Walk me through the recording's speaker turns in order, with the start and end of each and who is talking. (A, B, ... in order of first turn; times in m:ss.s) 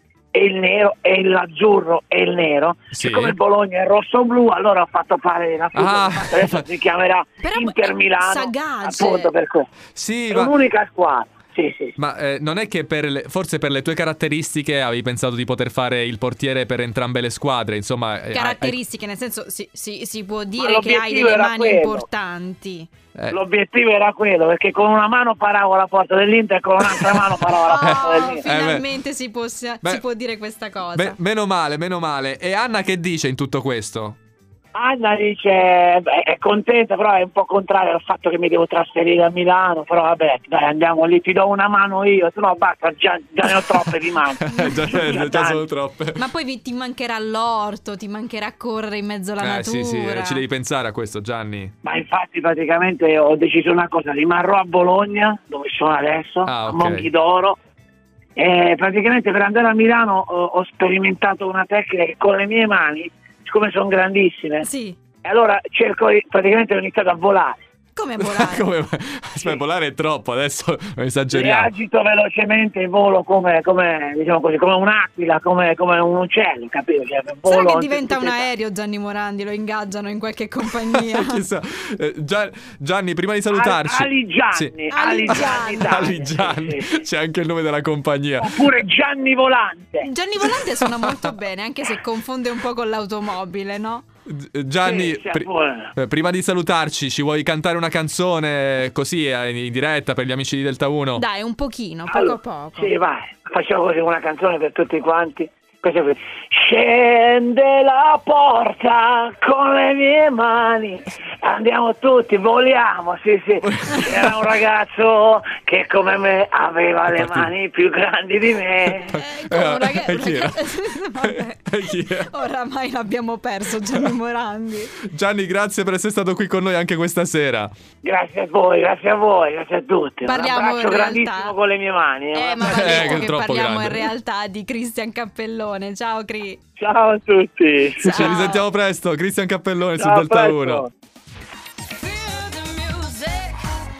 0:00.3-0:09.7 A
0:02.9-0:03.4 B
0:05.7-0:06.7 B
0:07.4-0:09.3 C
0:09.9-0:10.5 B
0:10.3-0:11.9 A
0:12.0-0:18.7 B
0:18.3-0:22.9 C
0:20.6-0:22.0 A
0:23.3-0:28.4 A
0:26.8-0:28.8 B
0:27.6-0:31.2 C
0:30.9-0:34.2 B
0:34.7-0:45.6 A
0:43.4-0:43.8 B
0:44.4-0:46.2 B
0:44.5-0:45.2 C
0:46.2-0:50.4 C
0:49.4-0:51.7 B
0:51.8-0:57.6 A
0:56.4-0:57.1 B
0:58.4-1:04.7 A
1:04.6-1:05.0 C
1:05.2-1:07.6 A
1:07.9-1:08.7 C
1:08.2-1:11.7 B
1:11.3-1:18.5 A
1:17.4-1:21.4 C
1:20.7-1:24.7 B
1:23.5-1:27.0 A
1:24.9-1:26.1 C
1:25.3-1:28.6 B
1:28.4-1:30.1 A
1:30.0-1:34.0 C
1:30.4-1:31.3 B
1:34.2-1:41.2 B
1:34.8-1:35.9 A
1:41.2-1:42.9 C
1:42.1-1:59.2 A
1:53.6-1:54.4 B
1:57.1-1:57.5 B
1:59.1-2:00.7 B
1:59.1-2:05.0 C
2:01.2-2:02.3 B
2:05.0-2:07.7 B
2:08.0-2:13.2 A
2:10.2-2:11.5 C
2:12.3-2:16.6 C
2:12.6-2:14.1 B
2:16.8-2:18.5 A
2:18.0-2:18.6 C
2:18.0-2:20.8 B
2:20.0-2:20.9 A
2:22.0-2:23.6 C